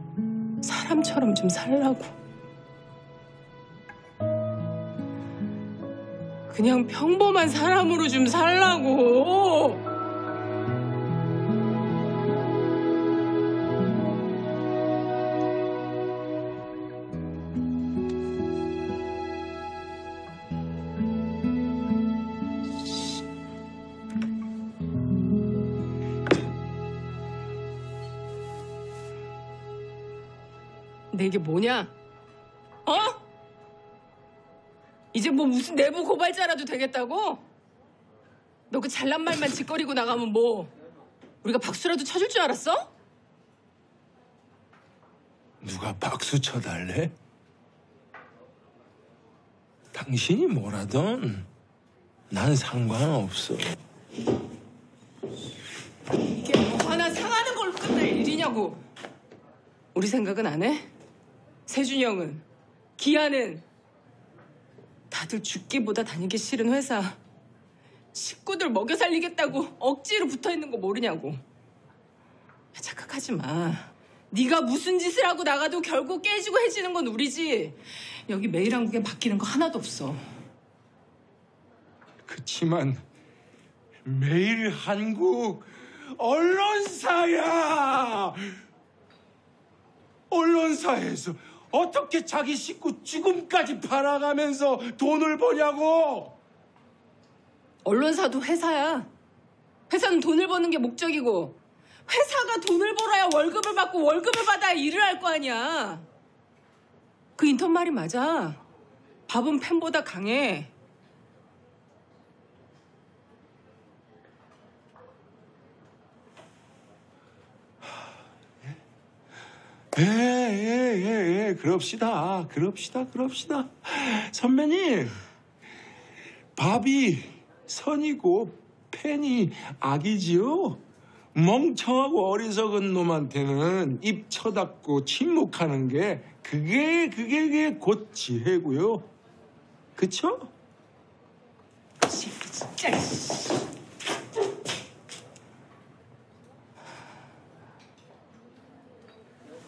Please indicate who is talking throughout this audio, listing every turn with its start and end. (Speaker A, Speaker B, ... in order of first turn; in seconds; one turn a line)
Speaker A: 0.6-2.1
Speaker A: 6.5-9.8
Speaker A: 31.1-31.9
Speaker A: 32.9-33.2
Speaker A: 35.1-37.4
Speaker A: 38.7-40.7
Speaker A: 41.4-42.9
Speaker B: 45.6-47.1
Speaker B: 49.9-51.5
Speaker B: 52.3-53.8
Speaker A: 56.2-58.8
Speaker A: 59.9-60.9
Speaker A: 61.7-62.5
Speaker A: 63.0-63.6
Speaker A: 65.1-67.2
Speaker A: 68.1-71.4
Speaker A: 72.7-80.2
Speaker B: 82.3-83.0
Speaker B: 84.0-88.6
Speaker B: 90.3-96.4
Speaker A: 97.8-99.1
Speaker A: 99.9-106.1
Speaker A: 107.4-108.6
Speaker A: 109.3-110.7
Speaker B: 119.9-125.2
Speaker B: 126.6-130.8
Speaker B: 131.3-139.1
Speaker B: 140.0-140.5
Speaker A: 142.1-143.6